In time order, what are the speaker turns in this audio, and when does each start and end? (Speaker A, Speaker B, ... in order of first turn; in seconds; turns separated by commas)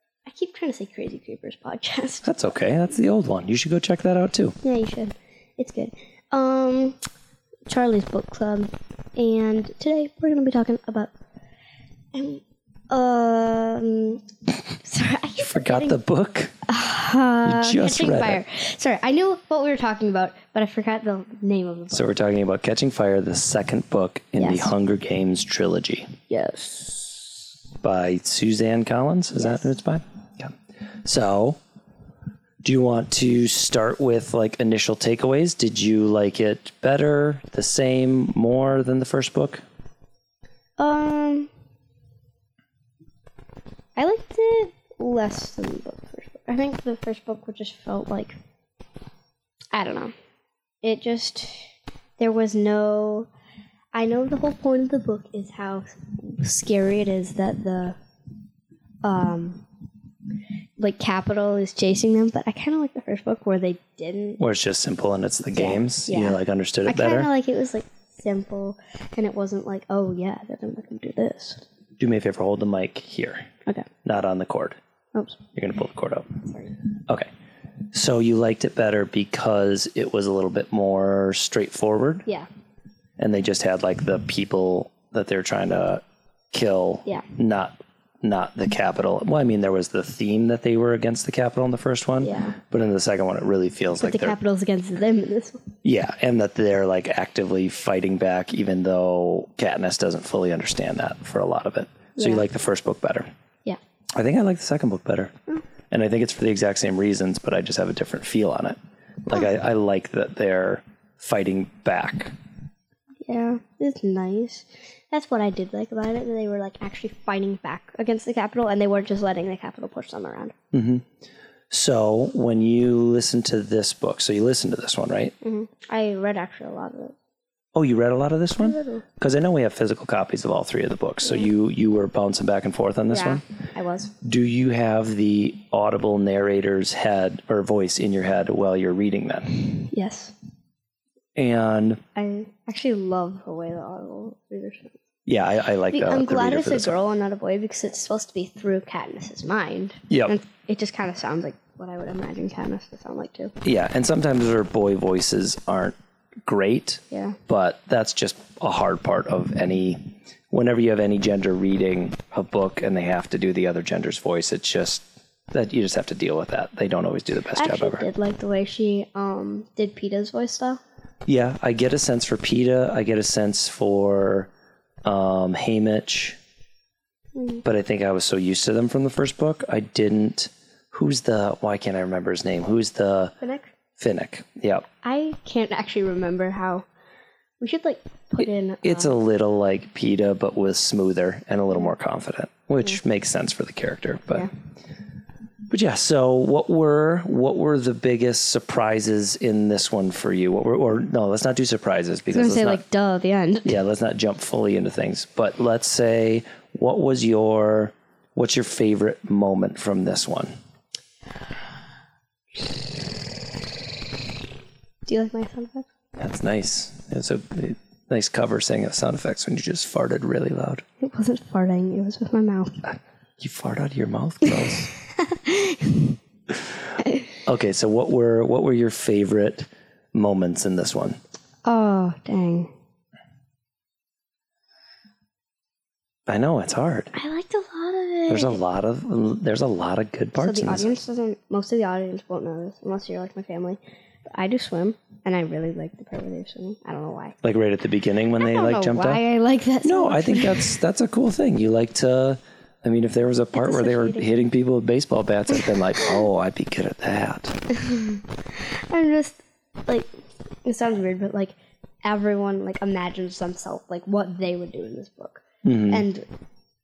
Speaker A: 0.3-2.3, Speaker B: 2.2-4.5, Speaker A: 4.6-7.0, Speaker A: 7.7-11.1, Speaker A: 12.1-14.2, Speaker A: 14.8-16.0, Speaker B: 15.4-16.5, Speaker A: 16.7-22.1, Speaker B: 17.4-18.4, Speaker B: 21.9-26.1, Speaker A: 24.4-24.7, Speaker A: 26.3-27.4, Speaker B: 27.8-30.5, Speaker A: 29.4-29.6, Speaker B: 31.0-31.6, Speaker B: 32.6-39.6, Speaker A: 40.8-41.5, Speaker A: 44.0-48.4, Speaker A: 49.7-50.1, Speaker A: 50.8-53.3, Speaker A: 53.9-58.0, Speaker A: 59.0-59.6, Speaker A: 60.8-64.4, Speaker B: 64.4-67.3, Speaker A: 65.5-71.6, Speaker B: 72.0-73.5, Speaker B: 74.0-74.8, Speaker A: 75.1-75.4, Speaker B: 75.5-76.3, Speaker A: 76.5-76.8, Speaker B: 77.9-82.2, Speaker B: 83.2-94.4, Speaker A: 92.2-92.6, Speaker A: 94.0-95.6, Speaker B: 95.8-103.3, Speaker A: 102.2-102.4, Speaker B: 104.2-105.3, Speaker B: 105.9-112.3, Speaker A: 113.2-120.5, Speaker B: 120.7-121.0, Speaker B: 121.7-125.3, Speaker A: 125.4-127.1, Speaker B: 127.7-133.4, Speaker A: 128.6-129.0, Speaker A: 133.1-134.1, Speaker B: 134.2-139.7, Speaker A: 139.8-140.3, Speaker B: 141.3-142.0, Speaker A: 142.1-145.0, Speaker B: 145.2-147.0, Speaker A: 145.9-153.5, Speaker B: 150.1-150.4, Speaker B: 153.6-155.9, Speaker B: 156.4-168.0, Speaker A: 157.1-157.4, Speaker A: 167.5-170.8, Speaker B: 171.2-174.5, Speaker B: 175.0-176.4, Speaker A: 177.3-177.6, Speaker B: 177.6-183.3, Speaker A: 183.4-183.7, Speaker B: 184.0-184.8, Speaker A: 185.0-186.8, Speaker A: 187.6-189.1, Speaker B: 188.4-194.5, Speaker B: 195.7-202.8, Speaker A: 202.3-203.8, Speaker B: 203.6-210.5, Speaker A: 215.1-215.9, Speaker B: 216.2-220.8, Speaker A: 221.0-222.8, Speaker B: 222.8-224.9, Speaker A: 224.9-226.2, Speaker B: 227.4-231.2, Speaker A: 231.6-232.7, Speaker B: 236.3-237.1, Speaker A: 237.1-238.6, Speaker B: 238.3-240.9, Speaker A: 240.4-243.8, Speaker A: 244.3-247.3, Speaker B: 247.4-249.2, Speaker A: 248.4-250.8, Speaker B: 249.8-257.6, Speaker A: 253.6-254.3, Speaker A: 257.7-260.1, Speaker A: 260.6-266.2, Speaker B: 265.6-266.0